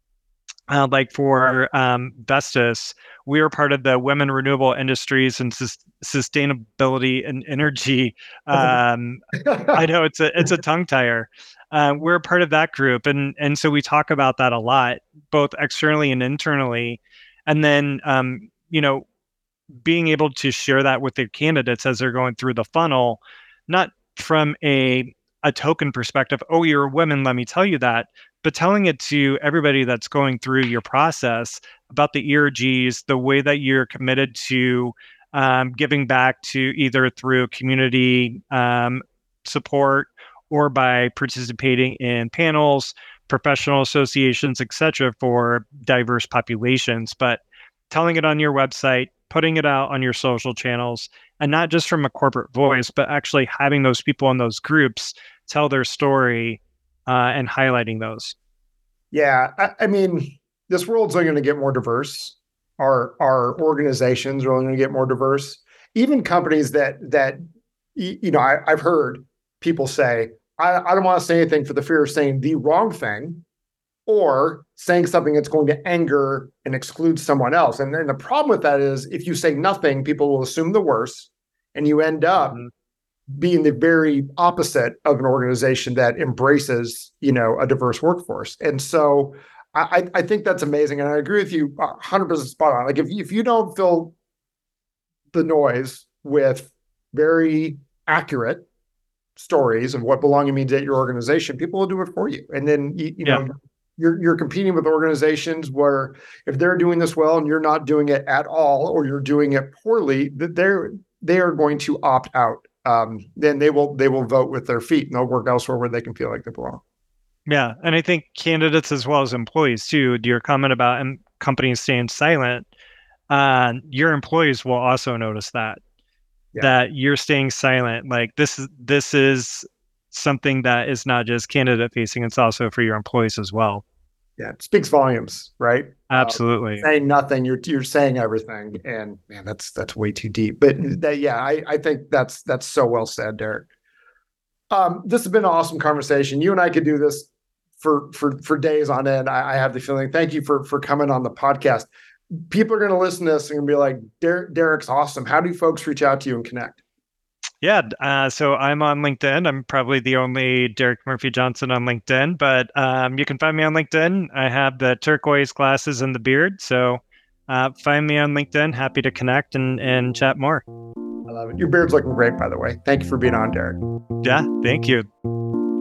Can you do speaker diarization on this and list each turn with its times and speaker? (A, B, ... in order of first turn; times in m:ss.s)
0:00.7-0:19.1 A
0:09.4-0:09.8 B
0:19.8-0:58.4 A
0:59.1-1:07.4 B
1:08.0-1:13.4 B
1:14.1-1:22.6 B
1:23.3-1:34.2 B
1:35.3-1:38.7 B
1:39.4-1:56.8 B
1:57.5-2:02.7 A
2:03.3-2:05.8 A
2:06.6-2:13.8 A
2:14.4-2:23.7 B
2:16.1-2:16.9 A
2:24.7-2:27.3 B
2:27.8-2:31.9 B
2:32.5-2:36.8 B
2:37.6-2:50.6 A
2:51.3-2:53.8 B
2:54.2-2:55.1 A